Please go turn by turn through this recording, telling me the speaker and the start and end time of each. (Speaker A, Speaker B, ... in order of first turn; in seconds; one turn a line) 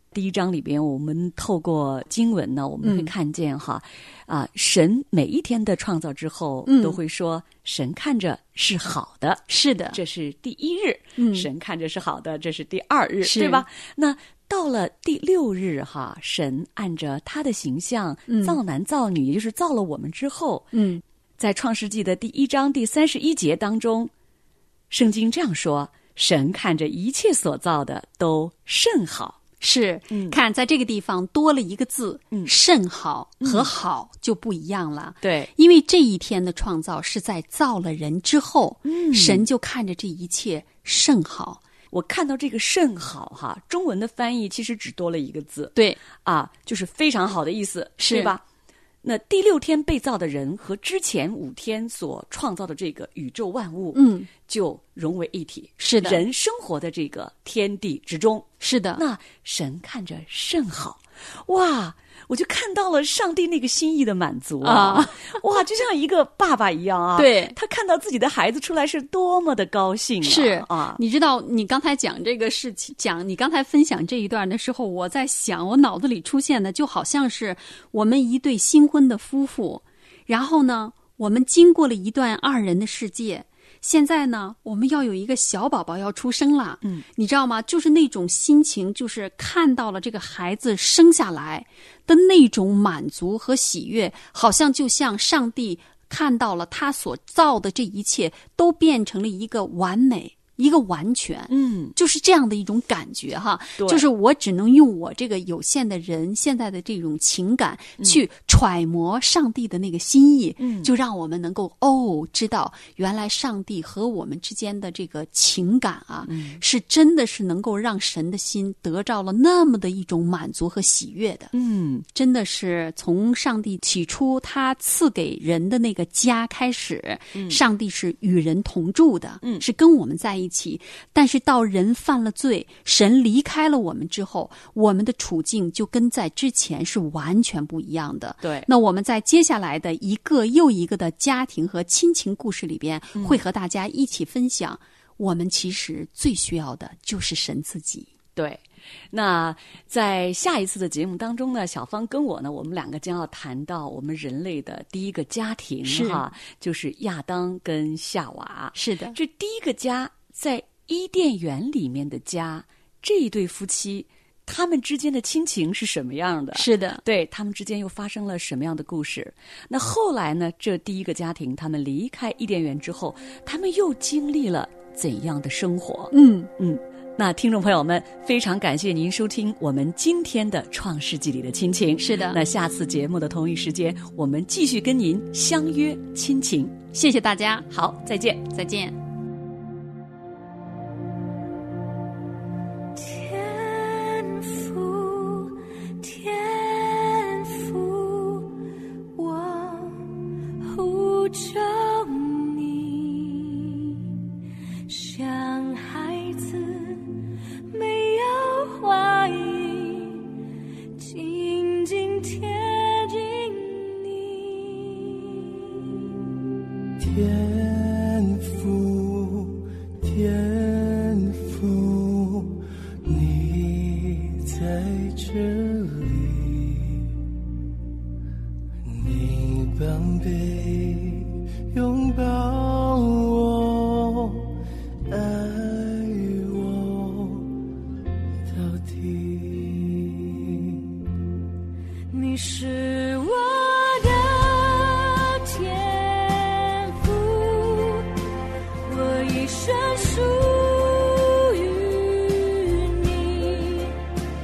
Speaker A: 0.1-20.7
Speaker B: 2.8-3.1
Speaker B: 6.7-7.0
Speaker B: 9.5-10.0
Speaker B: 11.2-11.5
Speaker B: 13.2-13.6
Speaker B: 18.3-18.6
Speaker B: 20.7-21.0
Speaker A: 21.4-24.1
Speaker A: 24.9-29.4
Speaker B: 29.6-41.6
Speaker A: 30.1-30.4
Speaker A: 33.4-33.7
Speaker A: 35.2-35.5
Speaker A: 38.9-39.5
Speaker A: 41.9-48.4
Speaker B: 45.8-46.0
Speaker B: 48.0-48.3
Speaker A: 49.0-71.0
Speaker B: 53.9-54.3
Speaker B: 55.8-56.2
Speaker B: 58.6-59.0
Speaker B: 64.6-65.4
Speaker B: 67.2-67.6
Speaker B: 70.2-121.5
Speaker A: 101.5-102.0
Speaker A: 103.8-104.0
Speaker A: 110.6-110.9
Speaker A: 116.3-116.6
Speaker A: 121.5-122.1
Speaker B: 122.1-148.1
Speaker A: 127.3-127.6
Speaker A: 138.4-138.7
Speaker A: 143.2-143.4
Speaker A: 148.4-186.8
Speaker B: 155.9-156.2
Speaker B: 158.8-159.2
Speaker B: 166.6-167.0
Speaker B: 176.1-176.5
Speaker B: 182.0-182.4
Speaker B: 186.9-187.7
Speaker A: 187.7-188.5
Speaker B: 188.5-188.9
Speaker C: 192.9-198.6
Speaker C: 199.2-204.1
Speaker C: 204.9-207.2
Speaker C: 207.7-210.4
Speaker C: 211.0-216.0
Speaker D: 217.0-227.1
Speaker D: 228.8-234.5
Speaker D: 235.1-237.5
Speaker D: 238.5-240.9
Speaker C: 242.1-248.2
Speaker C: 248.8-254.0